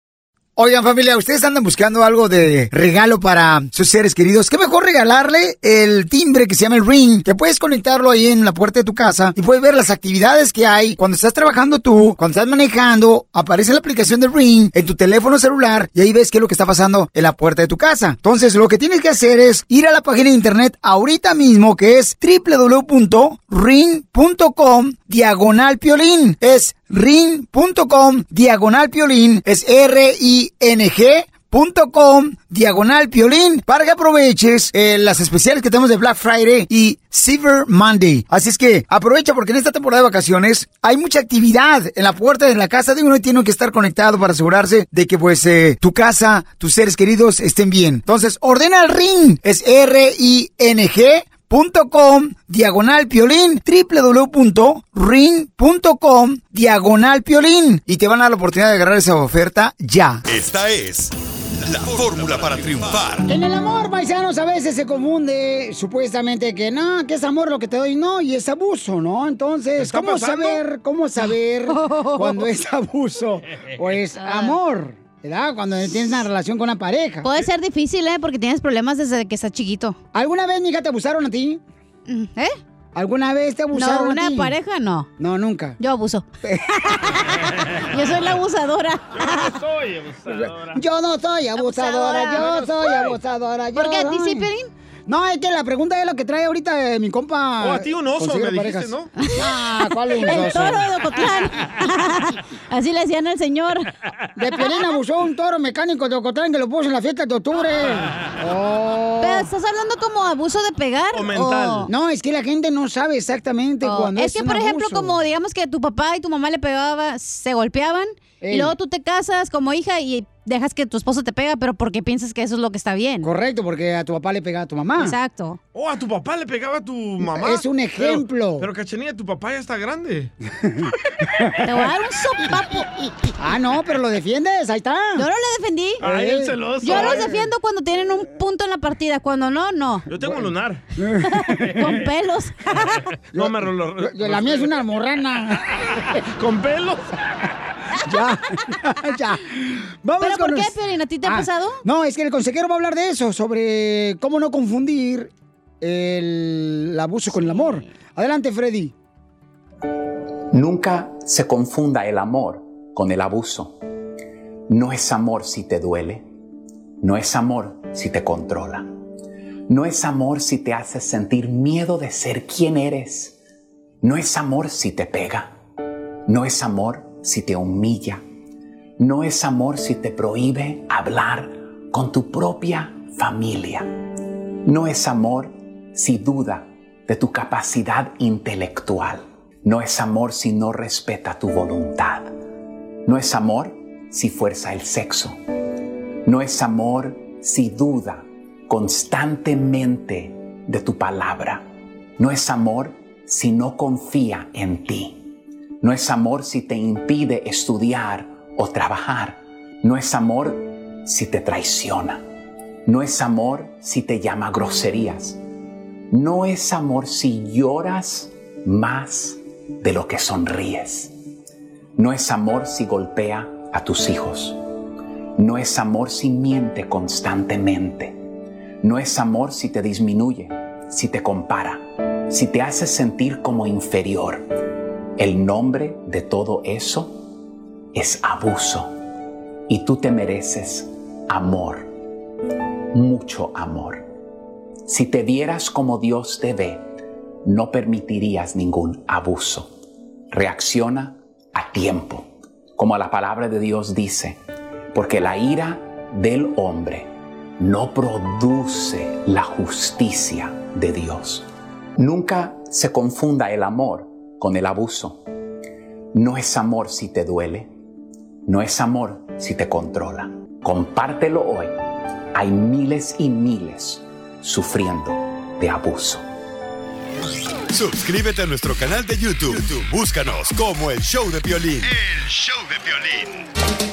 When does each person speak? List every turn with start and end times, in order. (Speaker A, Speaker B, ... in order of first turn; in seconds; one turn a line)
Speaker A: 0.6-60.2
Speaker B: 60.3-63.2
Speaker C: 62.1-62.9
Speaker A: 63.2-77.3
Speaker C: 69.8-70.6
Speaker D: 71.7-72.5
Speaker C: 73.6-73.9
Speaker D: 74.2-74.5
Speaker D: 77.2-80.0
Speaker A: 80.1-81.6
Speaker D: 82.1-82.6
Speaker A: 82.9-84.5
Speaker D: 83.7-85.1
Speaker A: 85.2-85.8
Speaker D: 85.8-87.4
Speaker C: 87.5-88.3
Speaker D: 87.9-89.5
Speaker C: 89.1-90.8
Speaker A: 90.3-94.5
Speaker D: 91.6-92.5
Speaker C: 92.3-93.2
Speaker D: 93.7-94.7
Speaker A: 95.1-100.9
Speaker C: 97.6-99.1
Speaker D: 99.2-99.4
Speaker D: 100.1-103.9
Speaker A: 104.3-109.5
Speaker C: 107.9-108.2
Speaker D: 109.2-111.9
Speaker C: 111.1-111.9
Speaker A: 111.9-115.2
Speaker D: 113.8-123.3
Speaker A: 118.4-118.7
Speaker A: 123.2-125.2
Speaker D: 125.0-125.6
Speaker C: 125.7-130.3
Speaker A: 127.2-128.7
Speaker A: 130.6-130.9
Speaker D: 131.6-132.8
Speaker A: 133.4-135.3
Speaker D: 135.2-136.0
Speaker C: 136.0-137.5
Speaker A: 136.0-137.3
Speaker D: 136.8-140.1
Speaker C: 140.1-140.8
Speaker A: 140.2-141.9
Speaker D: 141.4-142.6
Speaker C: 142.7-144.8
Speaker A: 143.3-146.0
Speaker C: 146.3-147.1
Speaker A: 148.0-158.9
Speaker D: 150.2-151.8
Speaker D: 157.3-157.8
Speaker E: 160.5-163.8
Speaker E: 164.7-166.2
Speaker E: 167.0-168.9
Speaker E: 169.7-173.3
Speaker E: 174.0-175.5
Speaker E: 176.3-178.2
Speaker E: 179.0-183.9
Speaker E: 184.7-192.3
Speaker E: 193.1-195.4
Speaker E: 196.2-201.7
Speaker E: 202.2-205.3
Speaker E: 205.8-212.2
Speaker E: 212.8-215.4
Speaker E: 216.1-221.1
Speaker E: 222.0-224.6
Speaker E: 225.4-228.2
Speaker E: 228.8-234.5
Speaker E: 235.2-237.2
Speaker E: 237.9-238.9
Speaker E: 239.7-241.9
Speaker E: 242.9-244.0
Speaker E: 244.8-246.9
Speaker E: 247.4-249.7
Speaker E: 250.3-254.4
Speaker E: 254.9-261.4
Speaker E: 262.0-265.2
Speaker E: 266.1-267.7
Speaker E: 268.5-271.7
Speaker E: 272.3-276.2
Speaker B: 277.7-282.0
Speaker B: 282.9-283.2